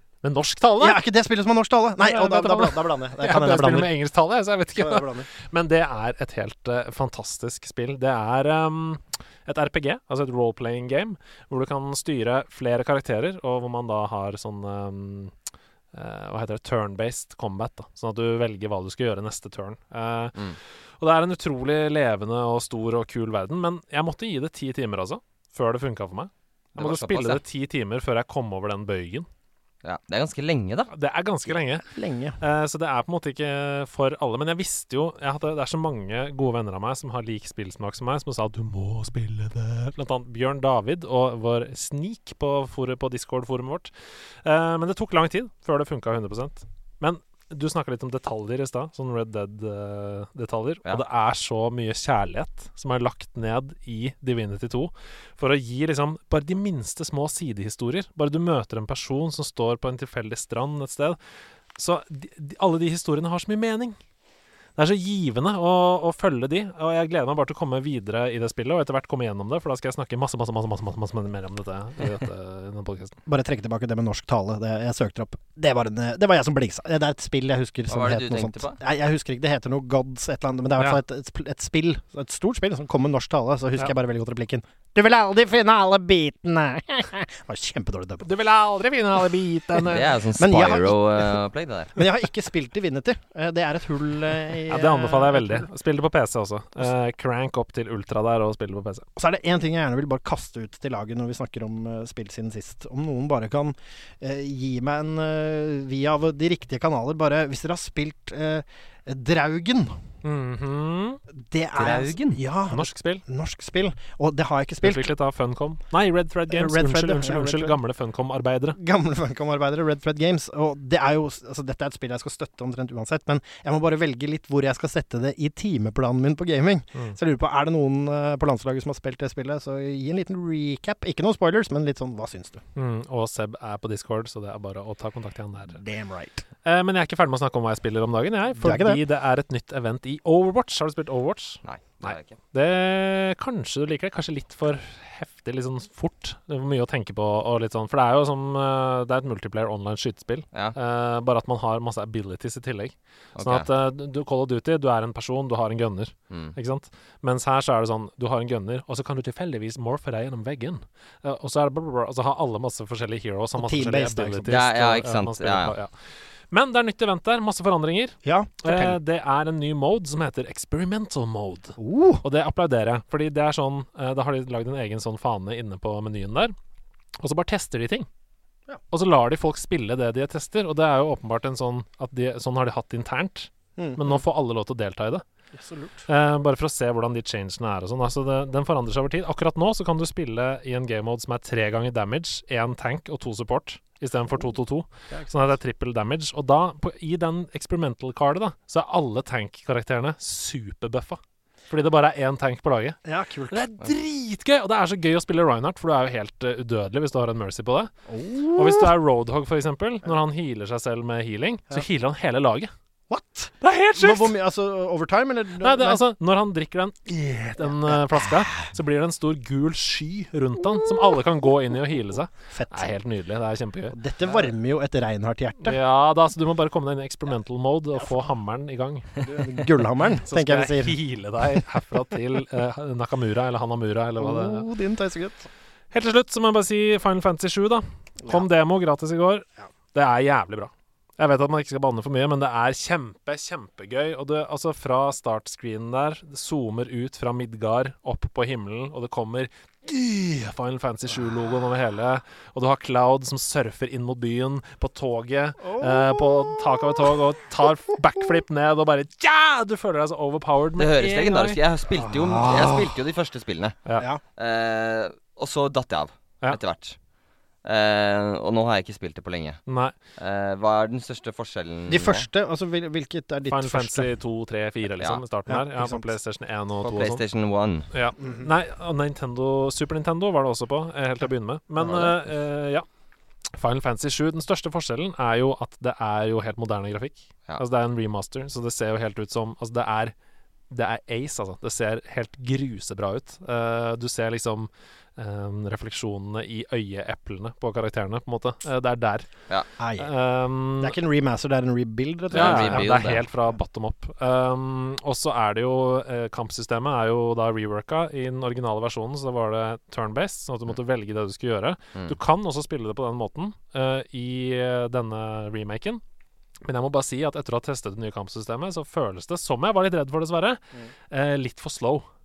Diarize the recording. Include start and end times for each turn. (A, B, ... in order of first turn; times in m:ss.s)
0:00.2-0:01.0 A
0:00.8-0:03.9 B
0:02.0-0:15.3 A
0:04.7-0:05.3 B
0:15.9-0:20.4 A
0:21.0-0:29.3 A
0:26.7-0:27.4 C
0:29.8-0:30.9 C
0:30.9-0:31.8 A
0:31.8-0:32.4 B
0:32.4-0:43.9 A
0:44.4-1:01.2 A
1:01.8-1:04.0 A
1:04.8-1:13.2 A
1:13.2-1:28.3 B
1:17.9-1:18.8 C
1:28.2-1:30.0 A
1:29.7-1:31.4 B
1:29.9-1:32.0 C
1:31.9-1:35.7 B
1:34.7-1:39.0 A
1:39.2-1:49.9 B
1:50.2-1:51.2 A
1:51.4-1:55.1 B
1:51.8-1:52.4 C
1:52.7-1:53.2 A
1:54.8-1:58.8 A
1:56.5-1:57.8 B
1:58.7-2:12.6 B
2:12.8-2:15.8 A
2:15.8-2:16.4 B
2:16.6-2:45.9 A
2:18.6-2:19.0 B
2:21.6-2:22.4 C
2:33.4-2:33.7 C
2:36.3-2:36.5 C
2:43.6-2:44.6 B
2:44.5-2:45.7 C
2:46.5-2:56.5 A
2:48.2-2:49.0 B
2:51.8-2:52.2 B
2:57.2-2:58.1 A
2:58.9-3:05.2 A
3:03.8-3:04.2 B
3:05.5-3:06.0 B
3:06.1-3:21.2 A
3:15.1-3:15.6 B
3:21.7-3:23.0 A
3:23.0-3:23.6 B
3:23.5-3:27.9 A
3:28.1-3:28.9 B
3:28.5-3:32.7 A
3:33.1-3:36.0 B
3:33.6-3:34.3 A
3:35.6-3:44.0 A
3:37.6-3:38.3 B
3:42.5-3:42.9 B
3:43.9-3:45.8 B
3:45.6-3:49.2 A
3:48.0-3:48.3 B
3:49.2-3:51.0 B
3:50.2-3:54.7 A
3:54.2-3:55.5 B
3:55.9-4:21.6 A
4:15.6-4:16.9 B
4:20.8-4:23.8 C
4:21.9-4:23.0 B
4:24.4-4:27.0 C
4:27.6-4:29.6 C
4:29.7-4:30.0 A
4:30.2-4:32.2 C
4:31.9-4:34.1 B
4:33.5-4:37.2 A
4:35.5-4:36.1 B
4:36.8-4:37.9 C
4:37.9-4:42.8 A
4:38.2-4:38.5 B
4:43.6-4:50.1 A
4:50.7-4:59.3 A
4:59.8-5:00.1 B
5:00.0-5:01.0 A
5:00.8-5:03.1 B
5:02.3-5:03.2 C
5:02.3-5:16.0 A
5:16.6-5:22.0 A